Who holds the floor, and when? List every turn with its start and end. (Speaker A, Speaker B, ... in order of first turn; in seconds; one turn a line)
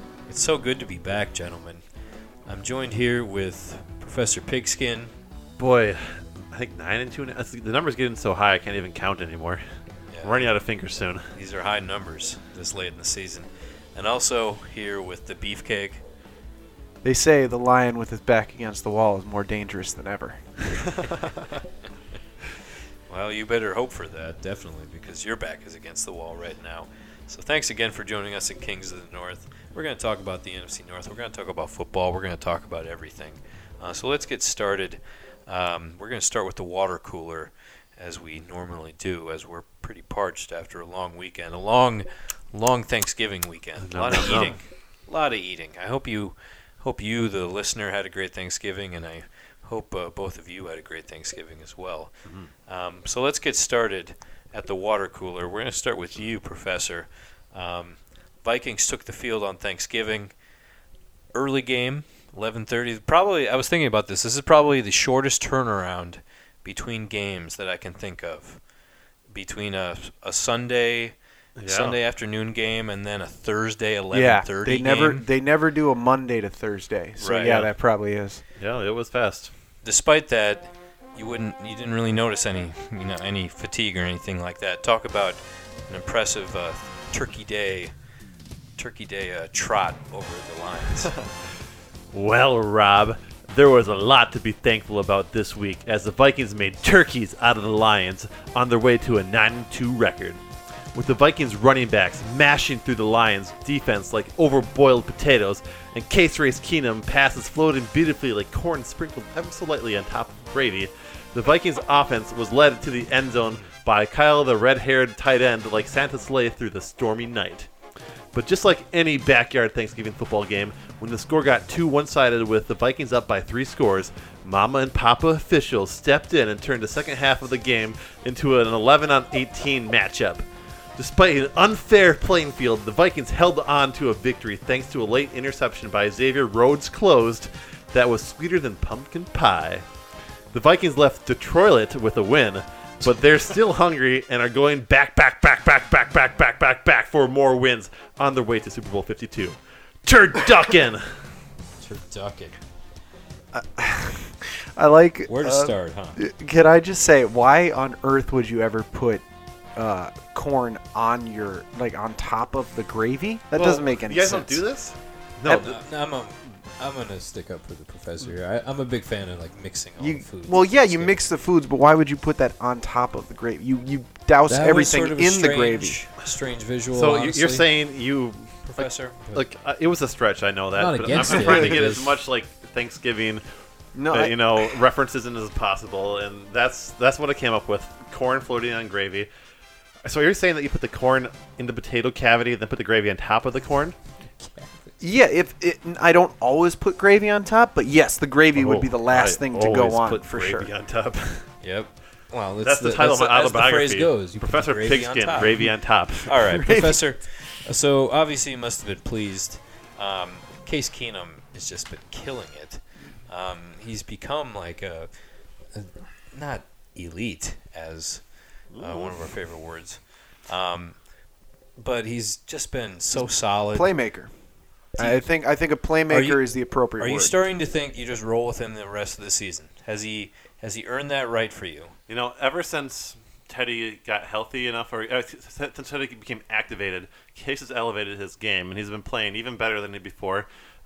Speaker A: 0.3-1.8
Speaker A: 2.5-5.1
Speaker B: 5.6-9.6
Speaker A: 10.1-10.5
Speaker B: 10.2-11.3
Speaker A: 11.3-16.0
Speaker C: 17.0-20.9
Speaker A: 23.1-52.1
Speaker B: 43.8-44.6
Speaker A: 52.7-60.3
Speaker A: 61.3-68.6
Speaker A: 69.3-75.2
Speaker B: 71.6-72.0
Speaker C: 74.1-78.4
Speaker B: 77.2-77.7
Speaker B: 78.6-79.5
Speaker A: 79.8-87.9
Speaker A: 88.8-91.1
Speaker B: 91.0-91.3
Speaker B: 92.1-100.4
Speaker B: 100.9-117.7
Speaker B: 118.3-139.8
Speaker B: 140.5-151.2
Speaker A: 151.8-152.6
Speaker C: 153.5-159.2
Speaker A: 155.3-156.2
Speaker C: 159.8-164.6
Speaker B: 163.5-165.8
Speaker C: 165.5-165.8
Speaker A: 165.5-171.2
Speaker C: 170.0-176.0
Speaker A: 174.5-177.7
Speaker B: 176.9-183.4
Speaker A: 178.7-179.4
Speaker A: 180.8-182.1
Speaker C: 181.1-181.8
Speaker C: 184.0-184.8
Speaker B: 184.1-189.3
Speaker B: 190.0-194.0
Speaker A: 194.4-194.9
Speaker C: 195.0-200.7
Speaker B: 198.5-201.5
Speaker A: 201.6-205.7
Speaker B: 202.6-206.9
Speaker A: 206.3-215.1
Speaker A: 215.7-218.2
Speaker B: 218.7-219.2
Speaker A: 218.8-220.9
Speaker A: 221.8-223.9
Speaker C: 223.7-224.3
Speaker C: 225.0-227.3
Speaker A: 225.0-225.2
Speaker A: 226.1-226.4
Speaker A: 227.0-231.9
Speaker B: 232.1-240.5